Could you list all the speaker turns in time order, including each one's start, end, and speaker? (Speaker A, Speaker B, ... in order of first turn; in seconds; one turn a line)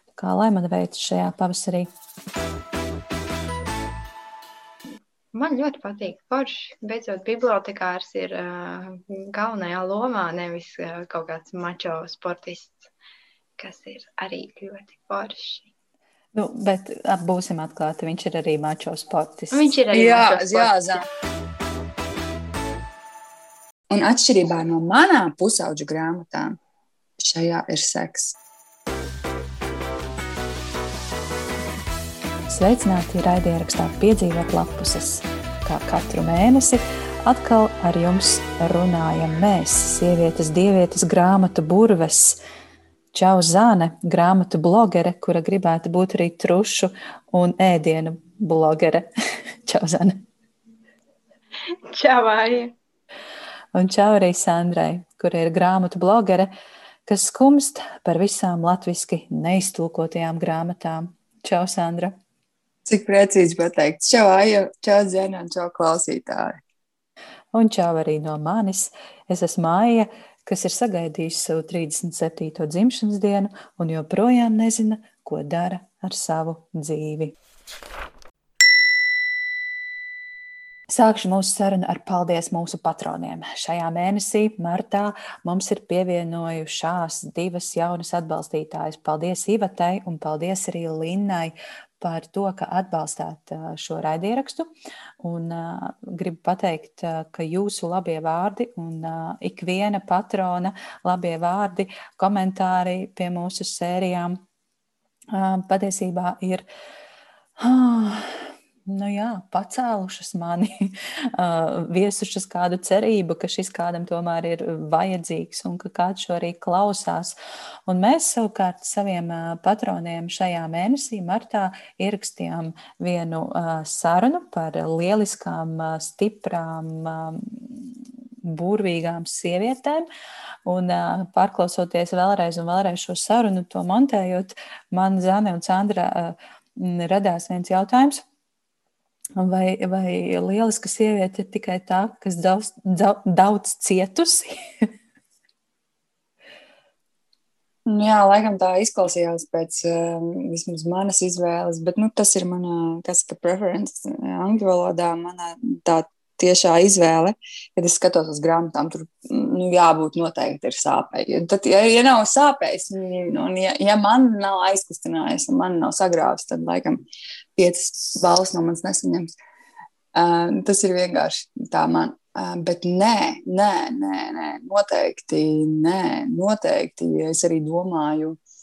Speaker A: 0.1-1.9
Speaker B: 5.3-12.9
Speaker B: 13.6-15.7
Speaker A: 16.3-19.7
Speaker B: 19.5-21.0
Speaker C: 19.9-21.0
Speaker C: 23.9-26.6
Speaker C: 27.2-28.4
Speaker A: 32.5-42.4
Speaker A: 43.1-49.1
Speaker A: 49.6-50.2
Speaker B: 51.7-52.7
Speaker A: 53.7-56.5
Speaker A: 57.1-62.1
Speaker C: 62.9-66.6
Speaker A: 67.5-77.3
Speaker A: 80.9-94.7
Speaker A: 95.2-104.4
Speaker A: 105.3-106.6
Speaker A: 107.6-117.3
Speaker A: 117.9-127.9
Speaker A: 128.4-130.1
Speaker A: 130.7-138.2
Speaker A: 139.4-144.9
Speaker C: 147.9-167.0
Speaker C: 167.6-169.3
Speaker C: 170.1-178.4